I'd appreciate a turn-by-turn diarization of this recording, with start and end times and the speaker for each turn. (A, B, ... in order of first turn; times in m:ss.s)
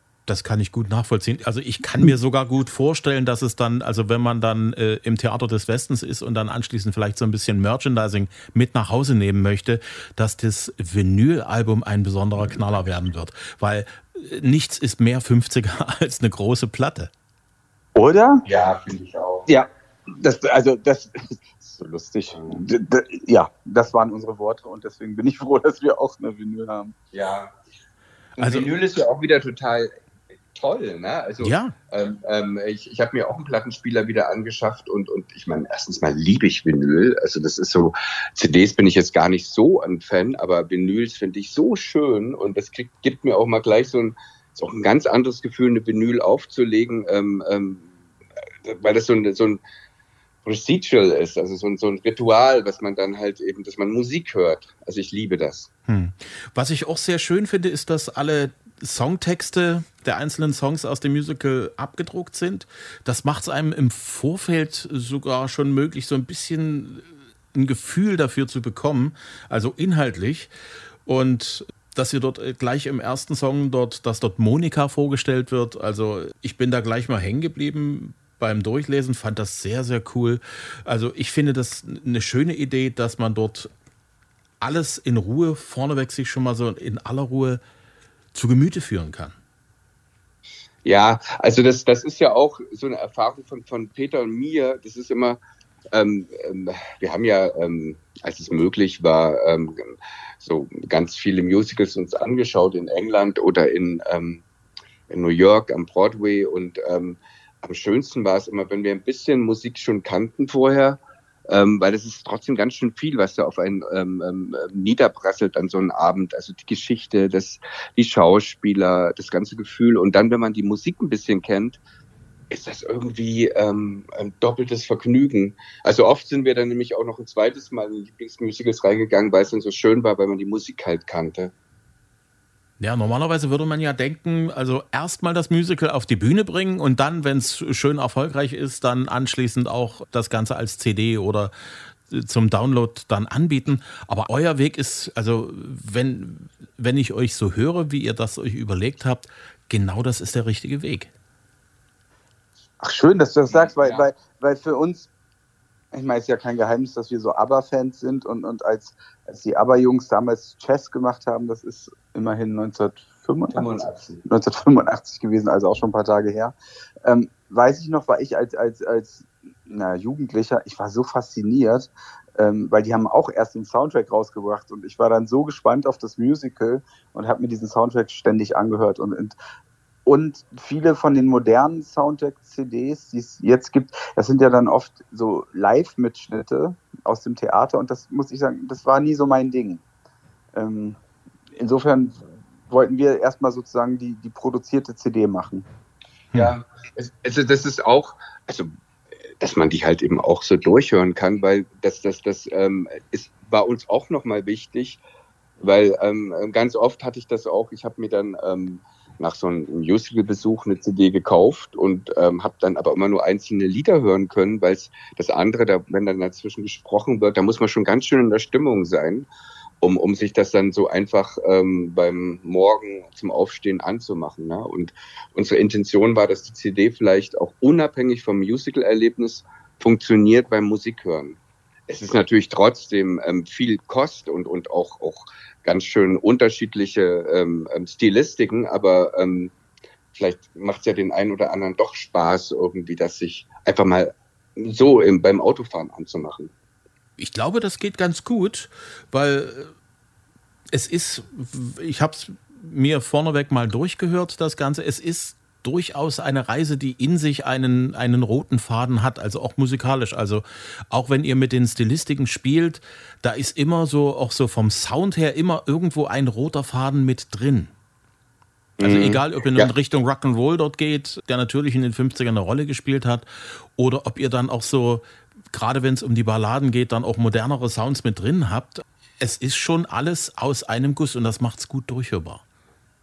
0:00.3-0:17.1 A
0:17.9-0:18.4 B
0:18.4-0:19.5 C
0:19.5-0:26.9 B
0:22.3-0:22.6 C
0:27.1-0:27.5 C
0:28.4-0:28.7 A
0:28.4-0:29.9 C
0:30.5-0:47.8 C
0:31.4-0:31.7 A
0:48.6-0:49.6 C
0:50.4-0:55.7 C
0:55.9-1:10.5 A
1:11.0-1:23.7 A
1:24.6-1:27.6 A
1:28.3-1:29.4 A
1:30.8-1:35.4 C
1:35.9-1:44.4 C
1:45.1-2:01.8 C
2:02.5-2:11.5 C
2:12.8-2:21.5 A
2:22.1-2:31.1 A
2:32.8-2:35.1 B
2:33.5-2:34.0 C
2:35.9-2:43.7 B
2:43.5-2:44.2 C
2:44.2-2:46.5 B
2:47.0-2:59.3 B
3:00.0-3:09.8 B
3:10.5-3:11.0 B
3:11.6-3:15.6 B
3:16.3-3:18.7 C
3:19.4-3:25.0 C
3:25.6-3:39.3 C
3:39.8-3:59.5 C
4:00.1-4:06.5 C
4:07.2-4:09.7 A
4:10.7-4:27.7 A
4:28.8-4:29.7 C
4:28.8-4:42.4 A